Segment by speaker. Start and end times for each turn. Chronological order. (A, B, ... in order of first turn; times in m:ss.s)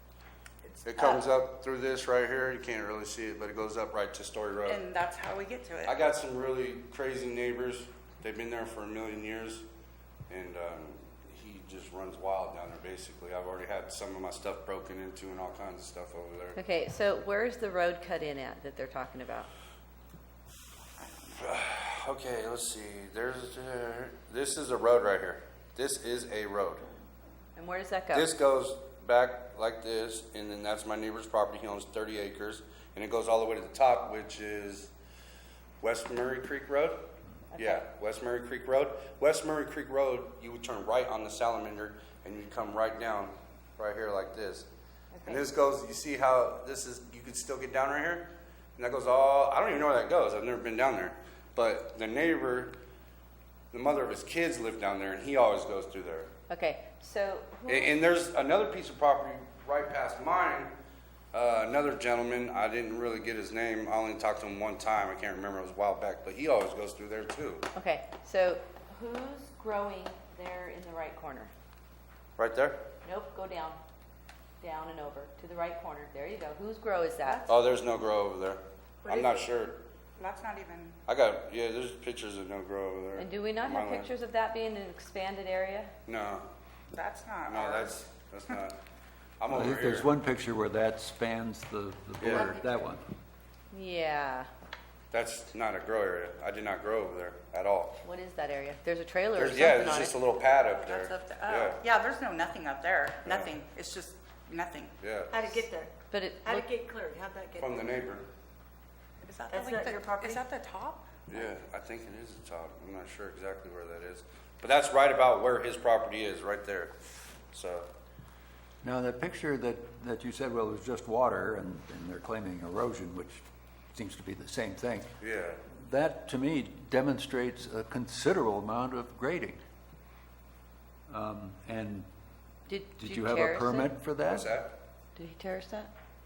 0:00.8-0:04.8 A
0:01.0-0:01.2 B
0:04.7-0:05.9 B
0:05.8-0:09.7 A
0:10.3-0:16.6 A
0:16.6-0:19.5 C
0:21.3-0:26.9 A
0:27.6-0:28.2 C
0:28.1-0:34.9 A
0:35.8-0:44.7 A
0:37.5-0:37.8 C
0:45.1-0:45.4 C
0:45.2-0:52.8 A
0:53.7-0:56.3 A
0:56.5-0:58.0 C
0:57.7-1:00.8 A
1:01.3-1:07.7 A
1:07.8-1:11.5 C
1:12.4-1:12.8 A
1:13.0-1:13.8 C
1:14.6-1:17.4 C
1:17.5-1:19.8 A
1:19.1-1:19.3 B
1:20.2-1:21.0 B
1:21.1-1:24.1 A
1:23.2-1:25.9 C
1:26.1-1:26.5 A
1:26.9-1:28.0 B
1:27.5-1:28.8 A
1:29.4-1:30.1 A
1:29.5-1:33.0 D
1:32.2-1:32.5 A
1:32.4-1:32.8 C
1:33.7-1:34.5 C
1:35.1-1:38.0 A
1:38.0-1:40.1 C
1:39.4-1:41.8 A
1:40.8-1:45.0 B
1:43.2-1:43.5 A
1:45.0-1:45.7 A
1:45.3-1:47.8 E
1:46.1-1:46.7 C
1:47.6-1:48.3 A
1:49.3-1:51.1 B
1:49.5-1:50.4 E
1:51.3-1:56.9 A
1:57.5-1:57.9 A
1:58.8-2:05.1 D
2:05.2-2:05.6 A
2:05.7-2:09.6 D
2:11.1-2:12.1 D
2:12.7-2:13.9 C
2:13.0-2:14.5 D
2:14.2-2:14.8 A
2:15.2-2:15.9 C